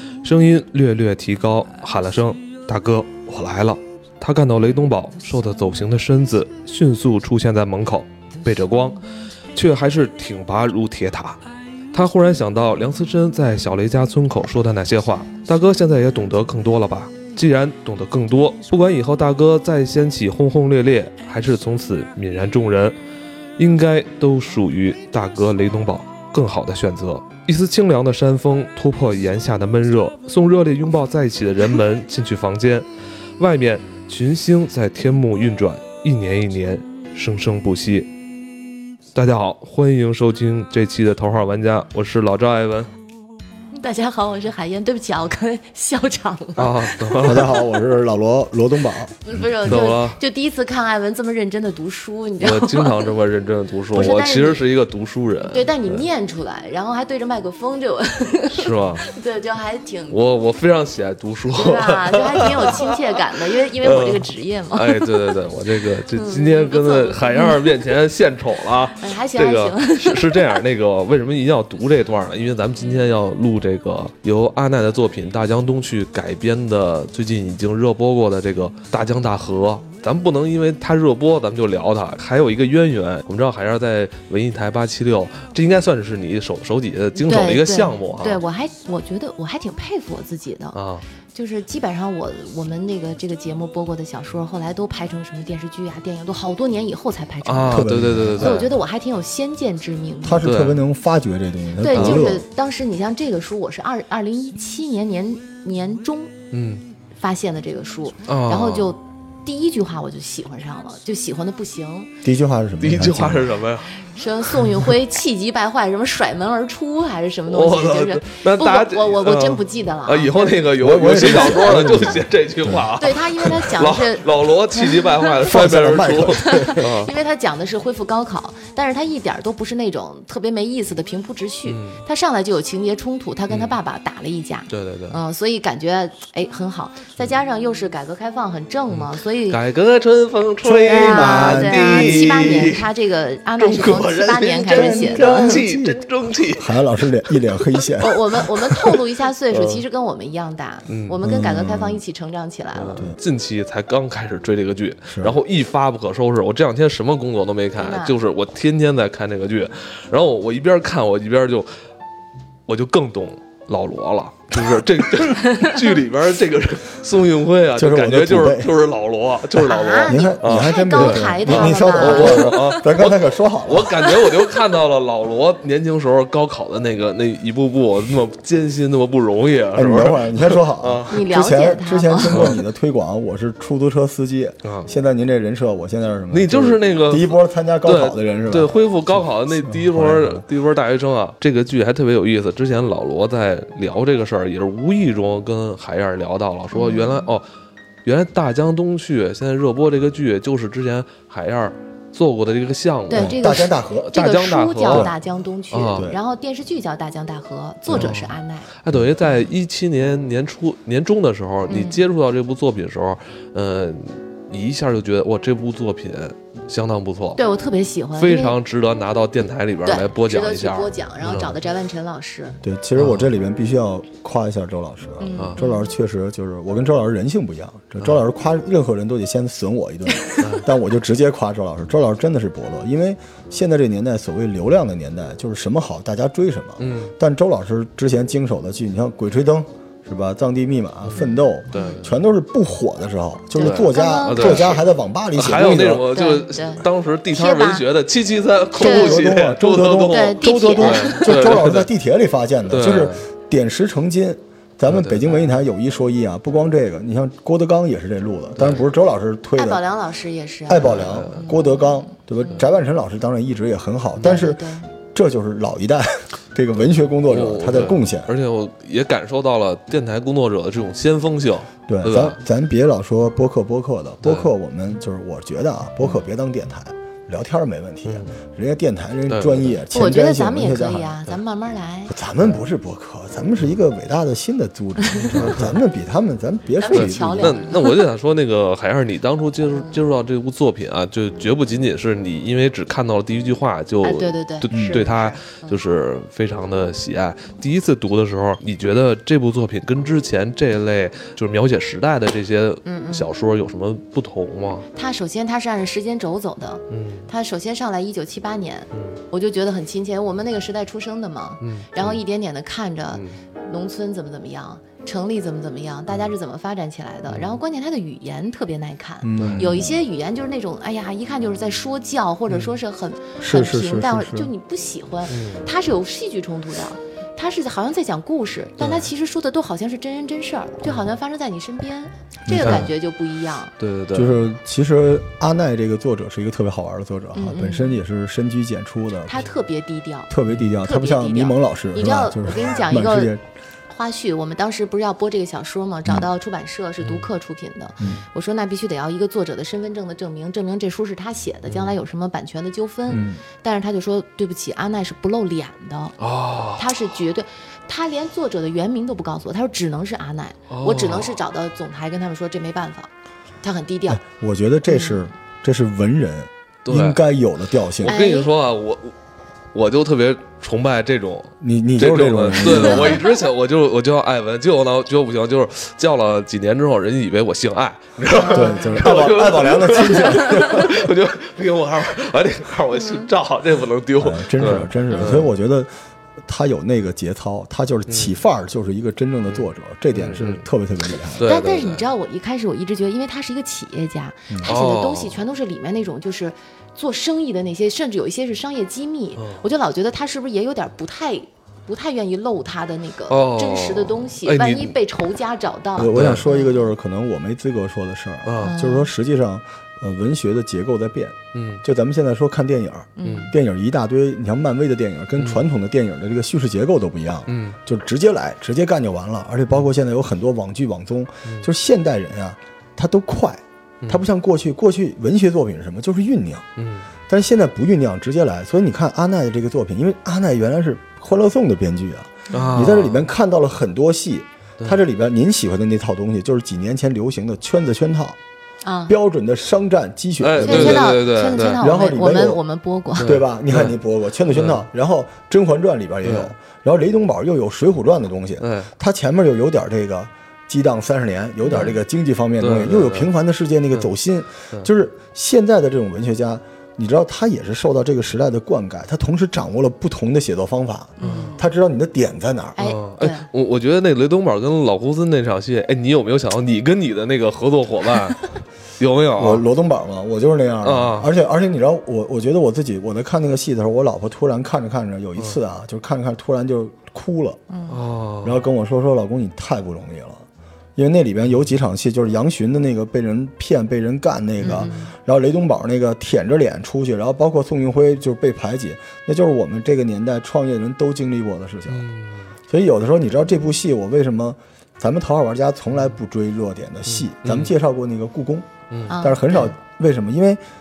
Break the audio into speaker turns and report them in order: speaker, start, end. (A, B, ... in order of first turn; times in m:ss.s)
0:00.2-0:11.4 A
0:11.9-0:23.0 A
0:23.6-0:32.9 A
0:33.4-0:38.1 A
0:39.1-0:42.9 A
0:43.7-0:47.7 B
0:46.6-0:47.5 A
0:47.2-0:49.1 C
0:49.2-0:53.1 B
0:49.6-0:50.2 A
0:52.4-0:56.0 A
0:53.9-0:54.6 B
0:55.5-1:00.2 B
0:58.5-0:59.0 A
1:00.1-1:03.0 A
1:01.5-1:05.3 B
1:03.8-1:28.4 A
1:06.1-1:07.7 B
1:09.0-1:10.6 B
1:27.2-1:30.8 B
1:30.7-1:31.0 A
1:31.3-1:40.5 B
1:37.4-1:38.7 A
1:37.7-1:38.7 C
1:40.2-1:42.4 C
1:40.4-1:40.8 A
1:41.8-1:46.4 B
1:41.9-1:42.3 A
1:46.5-1:46.8 A
1:47.2-1:52.1 B
1:48.3-1:48.9 A
1:52.2-1:53.6 C
1:52.8-1:54.0 A
1:54.0-2:02.1 B
1:57.5-2:07.1 A
2:00.8-2:02.9 C
2:03.0-2:05.5 B
2:05.4-2:06.8 C
2:06.3-2:19.6 B
2:11.7-2:12.0 A
2:14.7-2:15.2 A
2:18.9-2:22.9 A
2:20.6-2:22.6 C
2:20.8-2:25.6 B
2:23.6-2:26.8 A
2:24.7-2:28.4 C
2:28.0-2:33.1 B
2:29.5-2:29.8 A
2:30.9-2:31.2 A
2:31.2-2:32.0 C
2:32.8-2:41.7 A
2:35.1-2:35.4 C
2:37.8-2:38.2 B
2:42.7-3:01.2 A
2:47.8-2:48.7 C
2:49.6-2:52.5 B
2:50.1-2:54.1 C
2:59.7-3:10.4 C
3:01.1-3:02.5 B
3:02.3-3:02.6 A
3:04.6-3:04.9 A
3:06.3-3:17.5 A
3:16.7-3:17.3 B
3:18.0-3:23.4 A
3:23.1-3:28.7 B
3:23.1-3:24.1 C
3:24.0-3:25.1 A
3:24.9-3:25.1 C
3:25.7-3:26.0 A
3:27.9-3:28.2 C
3:27.9-3:37.4 A
3:31.7-3:32.0 B
3:37.4-3:38.6 B
3:38.2-3:41.5 A
3:39.9-3:42.6 B
3:42.6-4:06.1 C
3:43.0-3:43.3 A
3:45.2-3:45.9 B
3:50.4-3:50.7 A
3:56.8-3:57.1 A
4:01.0-4:02.1 A
4:01.2-4:02.0 B
4:03.6-4:04.8 B
4:03.6-4:04.7 A
4:05.4-4:11.9 A
4:06.1-4:07.8 B
4:08.8-4:19.8 C
4:08.8-4:09.2 B
4:10.1-4:11.4 B
4:12.7-4:13.2 A
4:14.9-4:15.2 A
4:18.6-4:18.9 A
4:19.6-4:22.6 B
4:20.7-4:28.3 C
4:20.8-4:21.5 A
4:24.2-4:24.9 B
4:27.3-4:32.4 A
4:31.9-4:41.4 C
4:34.2-4:34.5 A
4:38.1-4:38.3 A
4:39.3-4:39.8 A
4:39.9-4:42.2 B
4:42.1-4:47.7 C
4:45.0-4:45.6 B
4:45.3-4:45.7 A
4:46.8-4:48.0 B
4:46.9-5:04.9 A
4:49.7-4:50.0 B
4:54.0-4:55.8 B
4:54.7-4:55.1 C
5:02.8-5:03.3 B
5:05.0-5:33.7 B
5:06.9-5:07.3 A
5:08.9-5:09.2 A
5:11.6-5:12.2 A
5:13.1-5:13.4 A
5:17.3-5:17.6 A
5:19.2-5:20.0 C
5:19.4-5:19.7 A
5:22.5-5:22.8 A
5:23.4-5:24.5 C
5:25.3-5:25.7 A
5:32.5-5:32.9 C
5:32.6-5:32.9 A
5:33.8-5:34.4 A
5:34.1-5:39.4 C
5:37.3-5:38.0 B
5:39.3-5:43.3 B
5:40.3-5:43.4 C
5:43.9-5:56.2 B
5:47.0-5:47.3 A
5:51.7-5:51.9 A
5:53.1-5:53.4 C
5:56.2-5:57.1 A
5:56.8-6:03.1 B
6:00.7-6:01.4 A
6:03.6-6:04.2 B
6:04.1-6:08.2 C
6:04.9-6:05.3 B
6:06.8-6:07.2 A
6:08.0-6:09.1 A
6:08.0-6:08.5 B
6:09.7-6:25.5 A
6:11.6-6:13.2 C
6:12.7-6:13.3 B
6:18.4-6:19.0 B
6:18.4-6:21.1 C
6:22.9-6:23.3 B
6:24.2-6:25.9 C
6:25.1-6:25.4 B
6:26.5-6:31.5 C
6:28.1-6:28.4 A
6:29.5-6:30.6 A
6:31.3-6:32.1 A
6:31.4-6:46.9 B
6:34.5-6:34.8 C
6:34.6-6:35.4 A
6:39.4-6:39.6 A
6:43.3-6:45.0 A
6:46.0-7:06.7 C
6:46.1-6:46.4 A
6:48.4-6:48.8 A
6:48.6-6:49.1 B
6:51.5-6:51.8 A
6:53.2-6:53.5 B
6:53.2-6:53.5 A
6:55.4-6:55.7 A
6:57.5-6:57.8 A
7:06.8-7:07.1 A
7:07.3-7:18.4 C
7:12.5-7:12.8 B
7:12.5-7:13.3 A
7:18.8-7:19.2 B
7:19.1-7:21.2 C
7:20.4-7:21.8 A
7:20.6-7:23.3 B
7:21.8-7:22.6 C
7:23.2-7:24.0 A
7:23.2-7:42.8 C
7:24.5-7:24.8 A
7:26.2-7:26.5 A
7:28.6-7:28.9 A
7:31.6-7:32.0 B
7:32.6-7:33.3 A
7:41.2-7:41.7 B
7:41.2-7:41.6 A
7:42.8-7:43.5 B
7:42.8-7:48.5 A
7:49.0-7:49.6 A
7:49.4-7:57.6 C
7:50.8-7:51.3 A
7:57.7-7:58.0 B
7:57.9-7:58.6 A
7:58.4-8:12.1 C
8:04.6-8:05.1 B
8:11.9-8:12.5 A
8:12.7-8:20.6 C
8:17.1-8:17.7 A
8:19.1-8:19.8 B